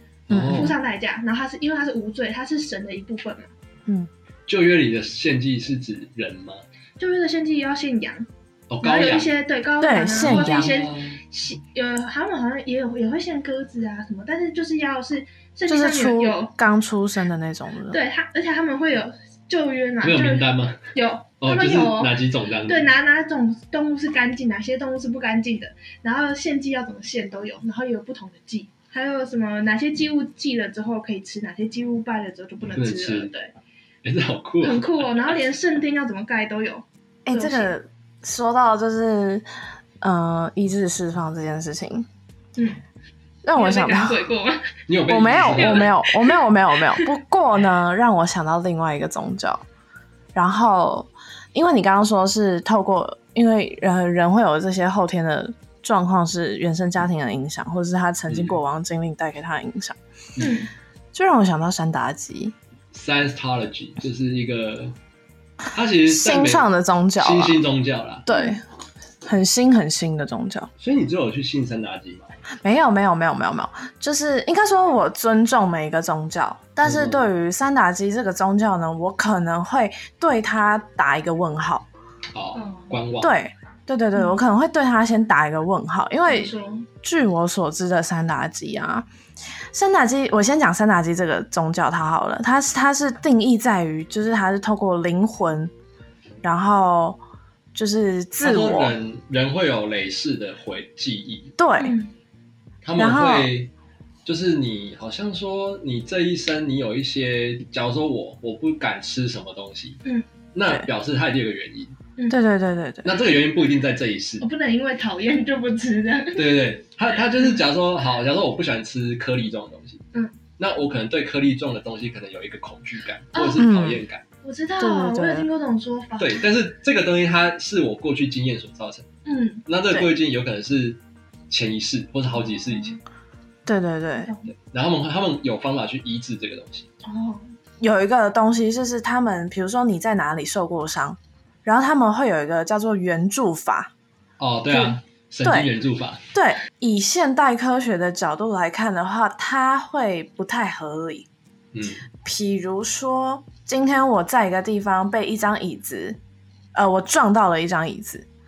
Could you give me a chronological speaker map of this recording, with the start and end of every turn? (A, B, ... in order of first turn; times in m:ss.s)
0:00.3-0:00.8 A
0:00.3-0:00.8 B
0:00.3-0:03.5 C
0:04.5-0:06.6 A
0:07.0-0:08.3 C
0:08.7-0:09.3 A
0:08.8-0:16.5 C
0:09.8-0:10.7 B
0:10.2-0:11.2 A
0:15.7-0:18.0 B
0:17.9-0:33.5 C
0:20.0-0:20.8 A
0:21.4-0:22.9 A
0:32.8-0:33.3 A
0:34.0-0:35.4 A
0:34.6-0:37.7 C
0:37.3-0:39.4 B
0:40.0-0:42.1 B
0:43.4-0:44.2 B
0:43.6-0:44.7 C
0:44.9-0:45.9 A
0:45.1-0:49.6 B
0:45.5-0:47.1 C
0:50.4-1:00.0 B
0:58.3-0:58.6 A
1:00.4-1:00.7 C
1:01.1-1:02.6 B
1:02.9-1:05.0 A
1:05.7-1:08.3 A
1:06.1-1:07.6 B
1:08.3-1:08.6 B
1:08.3-1:08.6 C
1:09.2-1:10.7 B
1:10.8-1:12.3 A
1:12.6-1:21.9 B
1:16.8-1:17.2 A
1:22.3-1:23.3 A
1:22.6-1:23.0 C
1:23.2-1:26.5 B
1:26.2-1:26.9 C
1:27.0-1:29.1 B
1:29.7-1:35.7 B
1:36.4-1:37.2 B
1:37.8-1:38.9 B
1:38.4-1:41.5 A
1:41.6-1:42.0 B
1:41.8-1:42.1 C
1:42.8-1:43.7 A
1:43.0-1:43.5 B
1:44.3-1:50.0 A
1:50.5-1:52.0 A
1:52.3-1:53.2 B
1:53.0-1:54.4 A
1:54.4-1:56.5 C
1:56.3-2:00.0 A
2:00.6-2:04.2 A
2:03.3-2:03.7 C
2:03.6-2:04.0 B
2:04.4-2:06.4 C
2:04.8-2:05.5 B
2:06.2-2:09.1 A
2:09.3-2:09.6 C
2:09.7-2:11.0 A
2:11.5-2:13.0 A
2:13.7-2:14.3 B
2:14.3-2:14.5 C
2:14.5-2:16.9 A
2:17.0-2:17.4 C
2:17.8-2:23.9 B
2:24.4-2:26.2 A
2:24.7-2:25.7 B
2:26.3-2:31.3 B
2:31.7-2:32.0 A
2:32.2-2:36.2 B
2:36.8-2:38.3 B